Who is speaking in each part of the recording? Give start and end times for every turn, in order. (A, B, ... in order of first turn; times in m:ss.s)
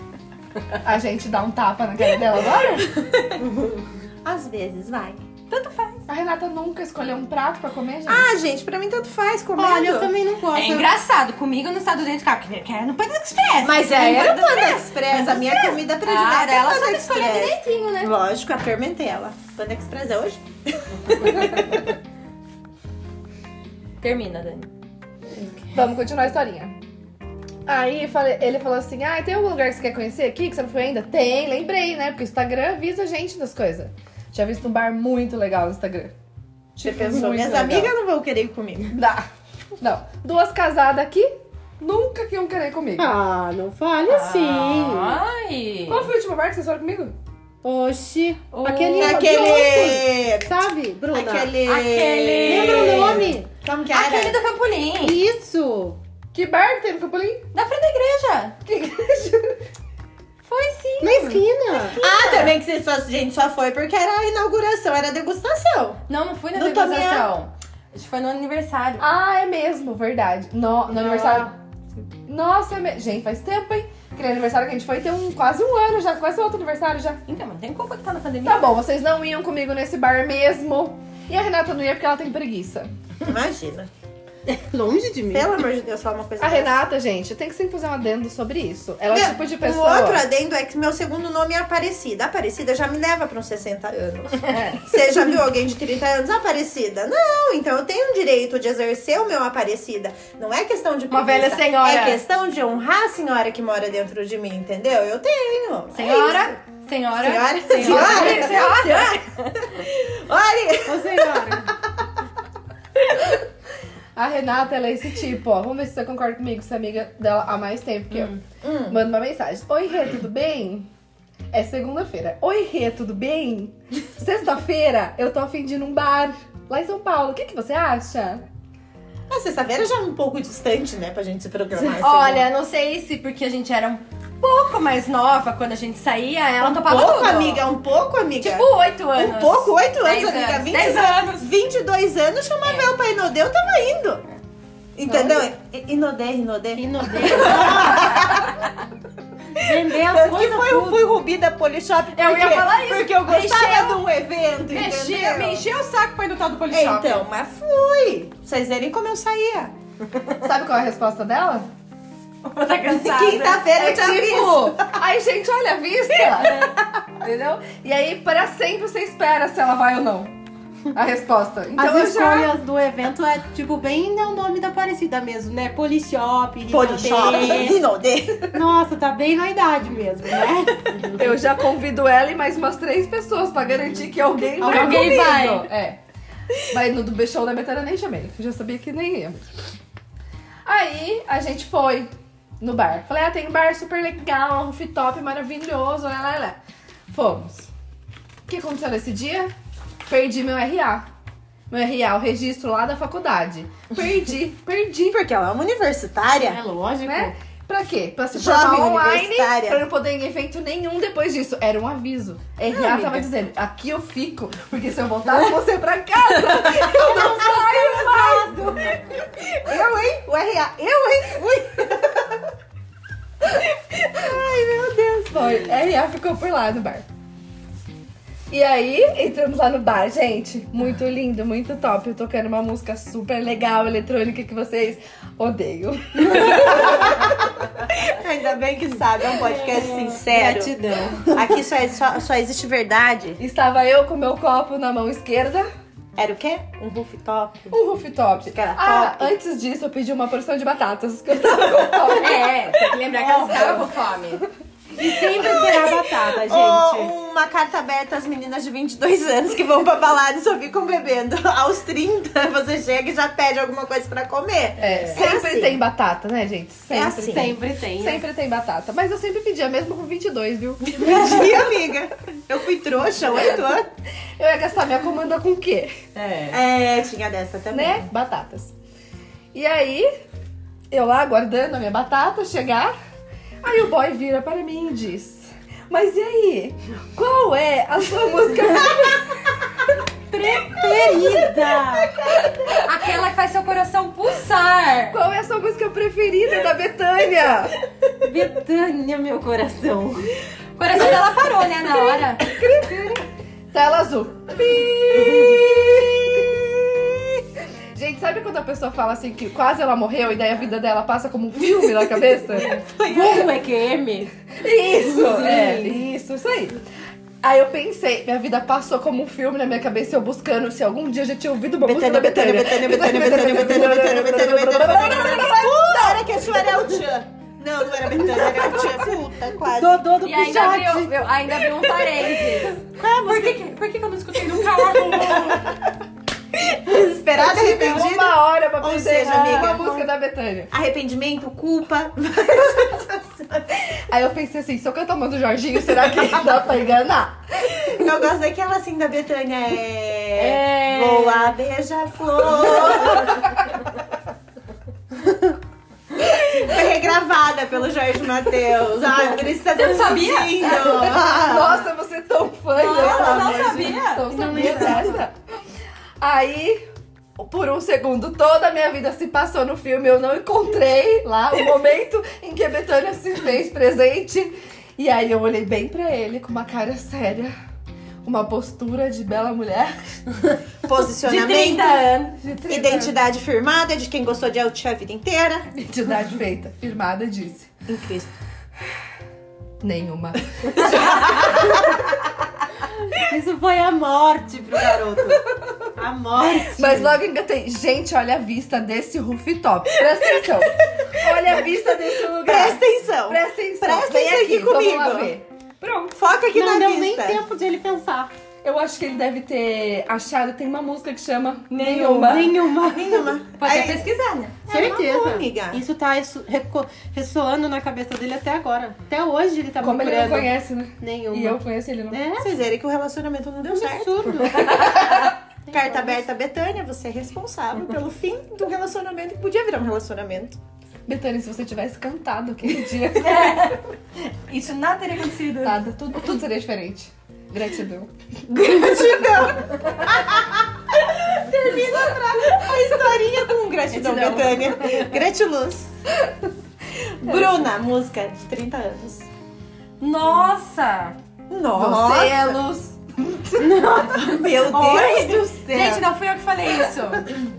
0:00.8-0:02.9 A
0:03.4-0:03.8 B
0:04.2-0:05.2 C
0:05.5-0:06.0 D
0:06.1-0:08.3 A
0:08.1-0:10.1 C
0:09.6-0:10.9 B
0:10.5-0:18.1 D
0:13.6-0:21.9 C
0:24.0-0:24.7 D
0:25.7-0:26.8 A
0:27.6-0:36.1 A
0:36.8-0:37.9 A
0:36.8-0:39.0 C
0:38.9-0:39.3 A
0:39.8-0:43.1 A
0:43.0-0:45.2 B
0:44.1-0:46.1 D
0:45.9-0:47.1 A
0:47.6-0:51.5 B
0:48.6-0:49.3 D
0:49.0-0:50.5 C
0:51.1-0:54.4 C
0:51.6-0:53.3 D
0:52.4-0:53.4 B
0:53.9-0:55.2 D
0:55.0-0:56.0 B
0:56.3-0:57.5 A
0:57.5-0:58.6 D
0:58.6-0:59.6 A
1:00.4-1:01.4 D
1:01.0-1:02.0 B
1:01.9-1:06.0 C
1:02.0-1:02.5 D
1:06.1-1:09.0 D
1:06.5-1:07.3 C
1:09.0-1:11.5 A
1:11.0-1:11.5 B
1:12.3-1:17.2 A
1:17.3-1:18.7 D
1:18.4-1:22.9 A
1:23.2-1:23.9 C
1:24.4-1:25.5 B
1:25.3-1:26.8 C
1:26.4-1:30.2 A
1:29.1-1:46.5 C
1:41.1-1:42.2 D
1:45.9-1:49.7 D
1:47.2-1:48.7 C
1:47.7-1:48.4 B
1:47.8-1:49.2 A
1:49.7-1:51.7 C
1:50.8-1:51.7 B
1:54.2-2:00.9 A
1:58.6-1:59.0 C
2:01.5-2:08.4 A
2:09.3-2:12.5 C
2:11.9-2:17.6 D
2:16.6-2:24.2 C
2:18.4-2:21.5 D
2:22.6-2:22.9 D
2:24.9-2:28.6 C
2:26.7-2:28.3 B
2:29.5-2:31.1 B
2:29.9-2:35.6 C
2:32.1-2:34.0 D
2:34.7-2:37.2 D
2:36.7-2:39.7 C
2:40.4-2:41.7 A
2:42.4-2:43.6 D
2:42.8-2:45.0 C
2:43.7-2:50.3 A
2:46.4-2:46.7 D
2:50.9-2:52.5 A
2:51.8-2:57.8 B
2:56.7-2:58.5 C
2:58.5-3:01.4 B
3:01.2-3:06.0 A
3:04.6-3:05.4 B
3:04.6-3:05.7 D
3:06.6-3:09.4 A
3:10.6-3:16.6 A
3:17.1-3:17.7 A
3:18.5-3:19.5 A
3:20.0-3:21.1 A
3:21.7-3:25.2 A
3:25.1-3:26.6 C
3:26.4-3:27.3 B
3:27.0-3:38.5 A
3:28.3-3:29.8 C
3:32.7-3:33.2 C
3:36.9-3:38.6 B
3:36.9-3:39.0 C
3:39.6-3:42.4 C
3:43.6-3:44.1 A
3:44.1-3:45.6 C
3:45.3-3:47.0 A
3:48.5-3:57.3 A
3:56.4-4:00.7 C
3:59.4-4:01.6 B
4:01.3-4:03.4 C
4:03.4-4:05.7 A
4:06.2-4:07.8 C
4:07.7-4:12.5 A
4:08.5-4:09.3 C
4:11.5-4:12.1 C
4:12.1-4:14.4 D
4:13.1-4:13.9 C
4:15.0-4:17.1 B
4:15.3-4:25.8 C
4:24.8-4:31.4 A
4:26.9-4:27.6 C
4:27.2-4:28.2 B
4:30.9-4:33.9 C
4:34.4-4:35.9 A
4:36.2-4:36.6 D
4:36.5-4:38.1 C
4:37.7-4:38.7 A
4:39.5-4:40.1 A
4:40.9-4:42.9 A
4:43.6-4:49.4 A
4:50.3-4:52.2 B
4:52.2-4:52.8 A
4:52.7-4:55.2 D
4:55.1-4:57.7 A
4:58.2-5:00.3 B
5:00.8-5:02.4 D
5:02.6-5:03.1 A
5:02.8-5:03.0 B
5:03.7-5:05.4 A
5:04.6-5:07.3 C
5:07.9-5:12.8 A
5:11.7-5:13.5 C
5:13.0-5:14.3 B
5:14.6-5:16.8 A
5:15.1-5:16.0 B
5:17.4-5:26.6 A
5:21.8-5:30.1 C
5:28.3-5:28.9 B
5:29.7-5:31.3 B
5:30.2-5:35.7 D
5:35.1-5:35.7 C
5:36.8-5:40.0 C
5:37.3-5:40.7 A
5:40.7-5:43.7 C
5:44.1-5:47.4 A
5:47.7-5:53.6 C
5:50.4-5:51.6 D
5:52.6-5:53.4 D
5:56.5-6:01.8 C
5:59.7-6:01.1 D
6:00.7-6:05.3 A
6:02.7-6:04.5 D
6:02.9-6:05.1 C
6:04.3-6:05.2 B
6:06.2-6:06.8 A
6:07.4-6:17.5 A
6:18.2-6:19.9 A
6:20.8-6:22.0 C
6:21.2-6:22.4 D
6:22.4-6:23.1 A
6:22.7-6:25.7 C
6:25.7-6:27.7 A
6:27.9-6:28.3 C
6:29.8-6:31.8 A
6:31.3-6:31.6 C
6:33.2-6:37.2 B
6:36.7-6:46.1 A
6:42.4-6:45.3 C
6:46.1-6:47.4 C
6:46.5-6:48.3 B
6:48.6-6:52.5 A
6:51.7-6:52.5 D
6:51.8-6:53.3 B
6:52.8-6:54.1 C
6:53.6-6:54.6 D
6:54.6-6:55.8 C
6:54.7-7:02.5 B
6:59.8-7:02.2 A
7:02.4-7:10.6 C
7:03.7-7:06.2 B
7:11.1-7:13.7 A
7:13.2-7:15.8 D
7:15.6-7:18.1 A
7:18.5-7:25.9 C
7:23.9-7:24.6 D
7:27.2-7:29.3 C
7:30.0-7:31.2 D
7:31.5-7:32.6 C
7:31.7-7:33.9 A
7:33.6-7:34.4 B
7:34.0-7:36.0 C
7:34.6-7:37.3 D